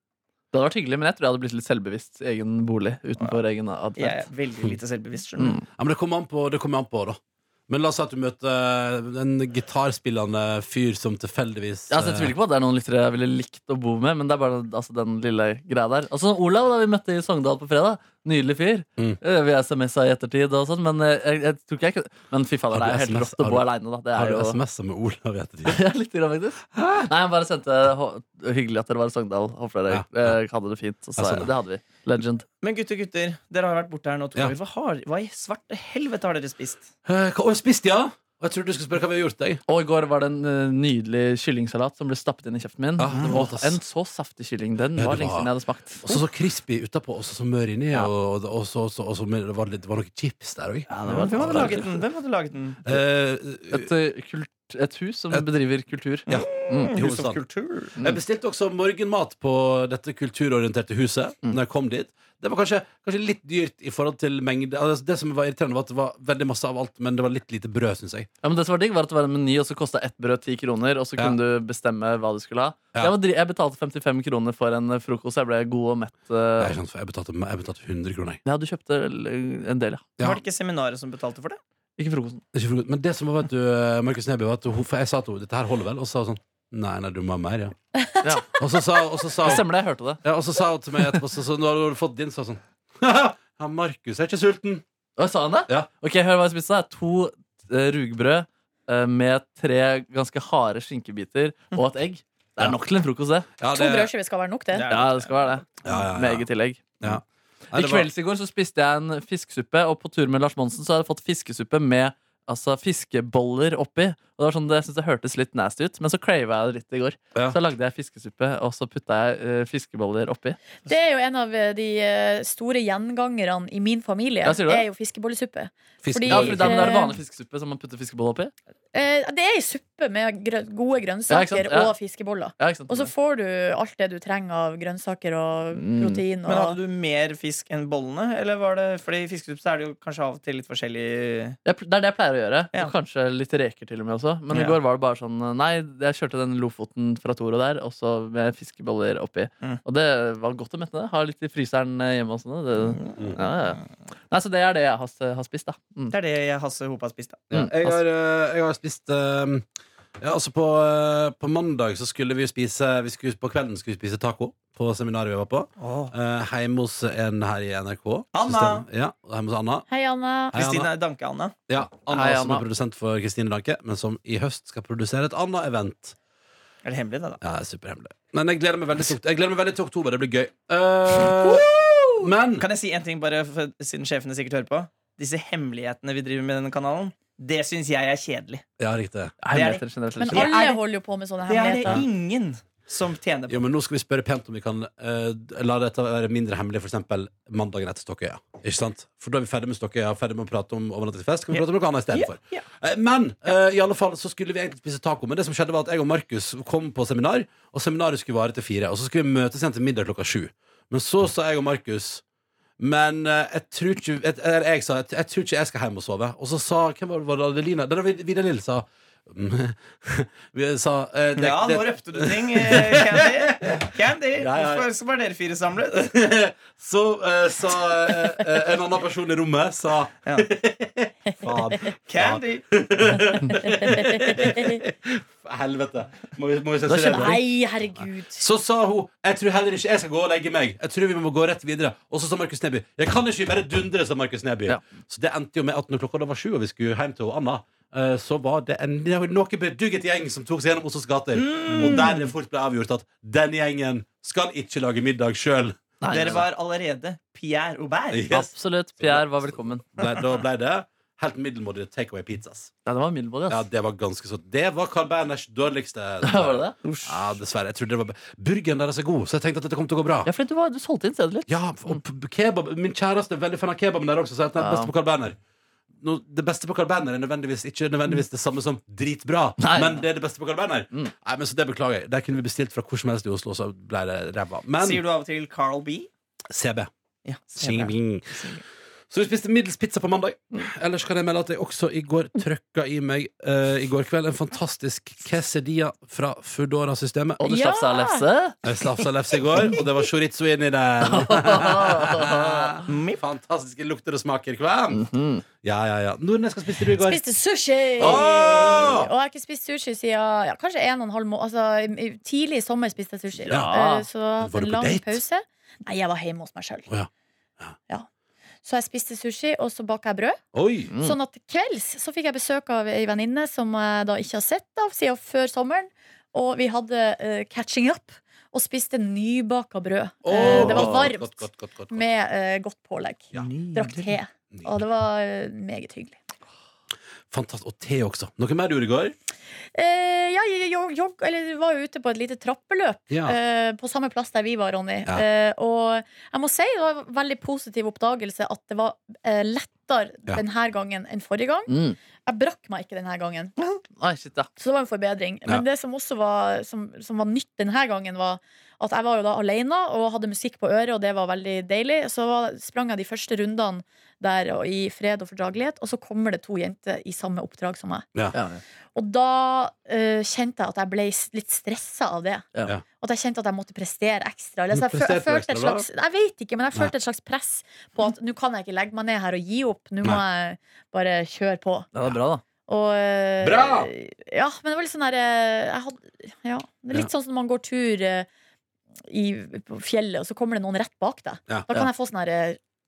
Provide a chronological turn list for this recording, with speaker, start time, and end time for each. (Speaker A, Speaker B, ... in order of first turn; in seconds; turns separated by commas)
Speaker A: 0.5-4.2, Speaker B: 4.0-5.6, Speaker A: 5.4-5.6, Speaker C: 5.8-12.3, Speaker A: 11.9-24.6, Speaker C: 22.7-25.8, Speaker A: 25.6-32.5, Speaker C: 26.8-27.1, Speaker C: 29.9-30.4, Speaker C: 31.1-31.5, Speaker B: 32.6-36.9, Speaker C: 37.0-39.6, Speaker A: 39.7-46.2, Speaker C: 43.0-43.8, Speaker C: 45.0-52.0, Speaker A: 50.9-51.9, Speaker B: 51.1-52.9, Speaker C: 52.8-53.9, Speaker A: 53.7-56.9, Speaker C: 56.3-57.4, Speaker B: 56.6-57.9, Speaker C: 58.0-68.3, Speaker A: 68.4-76.8, Speaker C: 76.6-78.4, Speaker A: 78.5-80.2, Speaker B: 80.2-81.6, Speaker A: 82.0-82.4, Speaker C: 82.5-87.7, Speaker A: 88.2-88.6, Speaker C: 88.5-89.7, Speaker A: 89.4-90.2, Speaker C: 90.2-94.8, Speaker A: 95.2-103.5, Speaker C: 103.6-104.1, Speaker D: 103.7-105.0, Speaker B: 104.7-105.6, Speaker A: 104.8-107.2, Speaker C: 105.8-106.5, Speaker C: 107.0-108.1, Speaker A: 107.7-120.6, Speaker D: 120.8-127.2, Speaker A: 124.4-124.9, Speaker C: 126.0-126.9, Speaker A: 126.3-128.5, Speaker D: 128.9-136.8, Speaker A: 131.3-131.9, Speaker A: 132.6-133.1, Speaker A: 135.7-136.2, Speaker B: 136.5-141.6, Speaker A: 141.6-156.2, Speaker B: 144.5-144.8, Speaker B: 152.8-153.1, Speaker B: 156.1-157.4, Speaker C: 157.5-159.7, Speaker A: 157.5-158.0, Speaker C: 160.2-169.9, Speaker B: 165.8-166.1, Speaker B: 168.3-168.8, Speaker D: 169.9-170.6, Speaker C: 170.5-170.9, Speaker B: 170.5-171.6, Speaker C: 171.7-176.2, Speaker A: 172.1-172.7, Speaker B: 176.8-177.4, Speaker C: 177.4-181.7, Speaker C: 182.2-182.7, Speaker B: 182.6-188.6, Speaker C: 188.8-189.3, Speaker A: 189.4-190.5, Speaker B: 189.5-190.8, Speaker D: 190.2-192.0, Speaker B: 191.4-193.6, Speaker C: 193.5-212.2, Speaker B: 201.5-202.7, Speaker C: 212.8-223.7, Speaker B: 221.4-226.1, Speaker C: 224.4-224.9, Speaker C: 225.9-256.4, Speaker D: 228.1-228.4, Speaker D: 231.3-231.8, Speaker B: 232.1-232.6, Speaker D: 233.4-234.8, Speaker A: 236.9-237.4, Speaker D: 237.0-238.4, Speaker B: 251.3-252.3, Speaker A: 256.0-256.4, Speaker B: 256.1-258.3, Speaker C: 258.1-262.7, Speaker A: 258.3-259.9, Speaker A: 262.9-263.6, Speaker C: 263.5-270.3, Speaker A: 266.2-266.8, Speaker B: 266.8-267.4, Speaker A: 270.2-272.0, Speaker C: 271.5-275.4, Speaker A: 274.6-274.9, Speaker C: 276.0-285.0, Speaker A: 279.6-280.0, Speaker B: 284.8-286.1, Speaker C: 286.5-286.9, Speaker B: 287.2-288.6, Speaker C: 287.6-288.5, Speaker C: 289.1-297.4, Speaker A: 297.4-298.6, Speaker D: 297.4-298.2, Speaker C: 298.6-305.0, Speaker A: 301.0-302.8, Speaker B: 302.9-303.2, Speaker A: 304.9-305.4, Speaker C: 305.6-307.3, Speaker D: 307.0-316.9, Speaker C: 308.0-309.1, Speaker A: 313.3-314.1, Speaker C: 313.5-313.7, Speaker C: 314.4-315.2, Speaker D: 318.6-320.4, Speaker C: 320.5-320.9, Speaker A: 320.9-321.2, Speaker D: 321.0-336.2, Speaker C: 330.2-332.1, Speaker A: 330.4-331.0, Speaker B: 333.3-334.1, Speaker C: 334.5-334.8, Speaker C: 337.3-339.1, Speaker D: 339.7-353.6, Speaker C: 343.1-343.4, Speaker A: 351.7-352.0, Speaker A: 354.0-354.5, Speaker D: 354.6-368.1, Speaker A: 368.3-368.6, Speaker D: 368.9-372.5, Speaker D: 373.0-381.9, Speaker C: 374.7-375.9, Speaker A: 381.9-382.4, Speaker D: 382.7-388.3, Speaker C: 383.4-383.9, Speaker D: 389.1-392.6